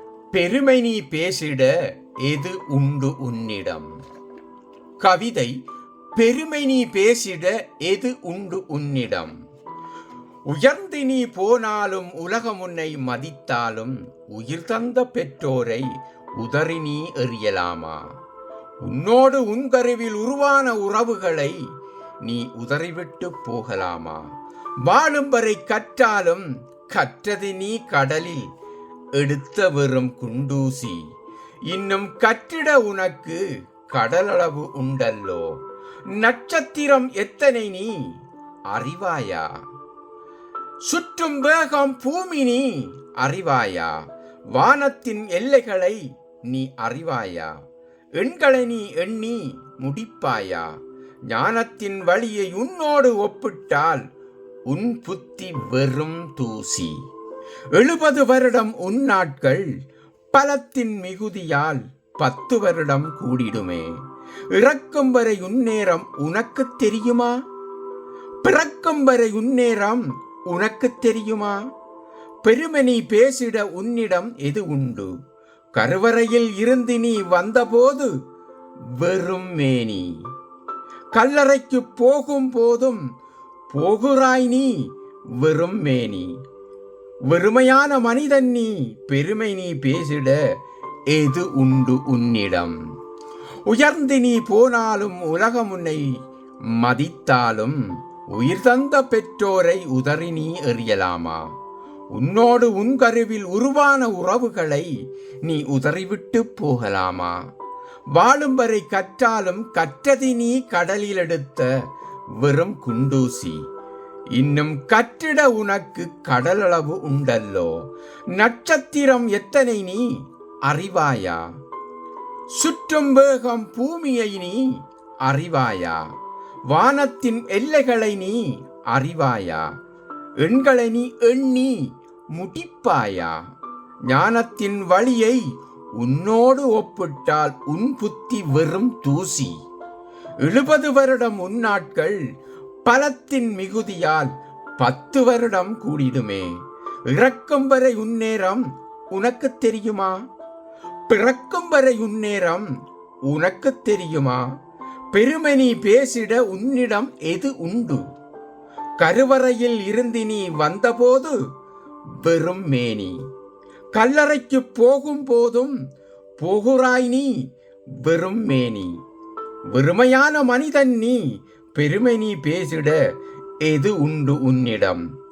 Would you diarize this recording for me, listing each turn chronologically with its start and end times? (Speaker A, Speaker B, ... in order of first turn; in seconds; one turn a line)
Speaker A: 0.3-1.7
Speaker A: 2.2-3.9
Speaker A: 5.0-5.6
Speaker A: 6.2-9.3
Speaker A: 10.5-15.9
Speaker A: 16.4-18.0
Speaker A: 18.8-21.6
Speaker A: 22.2-24.2
Speaker A: 24.8-28.5
Speaker A: 29.1-31.1
Speaker A: 31.7-35.6
Speaker A: 36.1-38.0
Speaker A: 38.7-39.5
Speaker A: 40.9-44.0
Speaker A: 44.5-47.5
Speaker A: 48.2-50.8
Speaker A: 51.3-54.1
Speaker A: 54.7-57.0
Speaker A: 57.7-59.7
Speaker A: 60.3-64.0
Speaker A: 64.5-67.4
Speaker A: 68.4-71.6
Speaker A: 72.4-75.1
Speaker A: 75.8-78.1
Speaker A: 79.0-80.2
Speaker A: 81.1-83.0
Speaker A: 83.7-84.8
Speaker A: 85.4-86.3
Speaker A: 87.3-90.4
Speaker A: 91.1-92.8
Speaker A: 93.7-96.0
Speaker A: 96.7-97.8
Speaker A: 98.3-101.4
Speaker A: 102.1-104.9
Speaker A: 105.4-107.4
Speaker A: 108.1-111.7
Speaker A: 112.4-113.6
Speaker A: 114.3-120.0
Speaker A: 120.7-121.5
Speaker A: 122.5-124.7
Speaker A: 125.2-126.0
Speaker A: 126.7-128.4
Speaker A: 128.9-129.7
Speaker A: 130.4-133.4
Speaker A: 134.1-135.4
Speaker A: 136.0-139.6
Speaker A: 140.4-142.2
Speaker A: 142.8-150.2
Speaker A: 151.1-152.7
Speaker A: 153.3-154.5
Speaker A: 155.1-158.0
Speaker A: 159.0-161.4
Speaker A: 162.2-163.2
Speaker A: 163.9-165.8
Speaker A: 166.4-167.4
Speaker A: 168.0-168.9
Speaker A: 169.7-171.2
Speaker A: 171.8-173.0
Speaker A: 173.6-175.1